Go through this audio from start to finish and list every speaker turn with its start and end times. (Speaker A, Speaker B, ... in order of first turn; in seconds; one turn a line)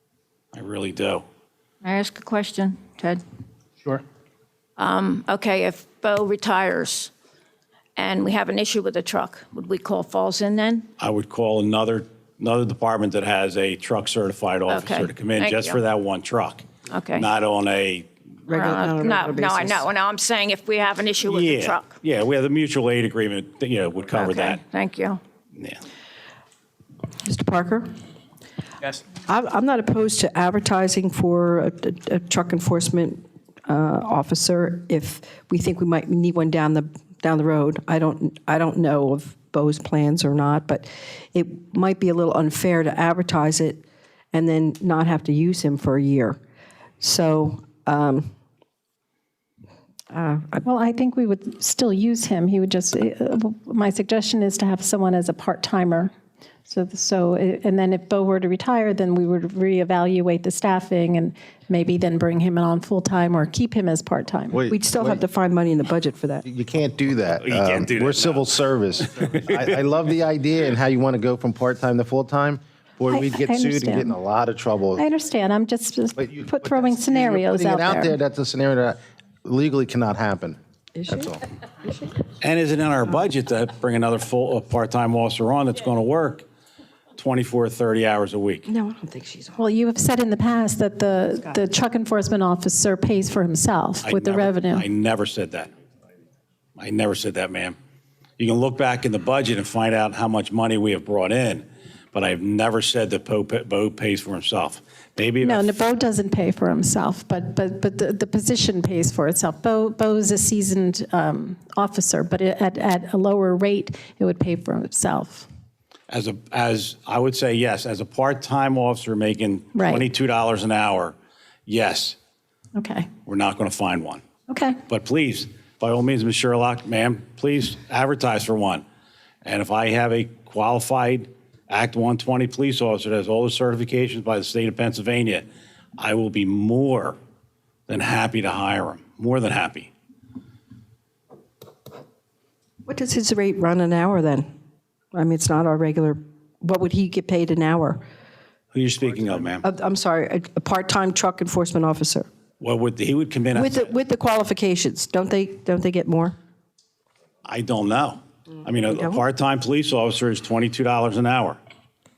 Speaker A: 0.5-1.2
Speaker B: 1.8-3.2
Speaker B: 4.8-7.1
Speaker B: 8.0-10.8
Speaker A: 11.0-18.1
Speaker B: 14.7-15.8
Speaker B: 16.9-17.2
Speaker C: 18.5-19.9
Speaker B: 18.5-21.9
Speaker A: 21.3-24.6
Speaker B: 24.1-25.2
Speaker C: 27.2-27.9
Speaker C: 29.2-46.4
Speaker C: 47.0-48.3
Speaker C: 50.1-50.6
Speaker D: 50.6-56.1
Speaker D: 56.6-64.7
Speaker E: 64.5-65.2
Speaker C: 64.7-66.4
Speaker E: 66.4-75.0
Speaker A: 67.4-69.7
Speaker D: 73.1-74.1
Speaker D: 75.0-78.2
Speaker E: 76.2-80.6
Speaker C: 81.0-81.3
Speaker E: 81.1-81.4
Speaker A: 82.4-86.4
Speaker A: 87.2-88.7
Speaker C: 88.7-89.6
Speaker D: 89.6-94.8
Speaker C: 91.4-91.7
Speaker A: 94.0-95.7
Speaker A: 96.8-97.8
Speaker A: 98.4-105.7
Speaker D: 105.4-115.5
Speaker A: 116.1-121.1
Speaker D: 119.7-120.1
Speaker A: 121.7-122.2
Speaker D: 122.8-123.1
Speaker A: 123.2-124.2
Speaker D: 124.5-124.8
Speaker A: 124.9-128.8
Speaker A: 129.4-135.4
Speaker A: 136.0-137.2
Speaker A: 137.9-139.9
Speaker C: 142.8-144.5
Speaker C: 145.1-148.0
Speaker A: 148.7-149.6
Speaker C: 149.6-152.3
Speaker A: 152.6-153.9
Speaker C: 153.5-156.3
Speaker A: 157.4-161.6
Speaker C: 158.9-159.2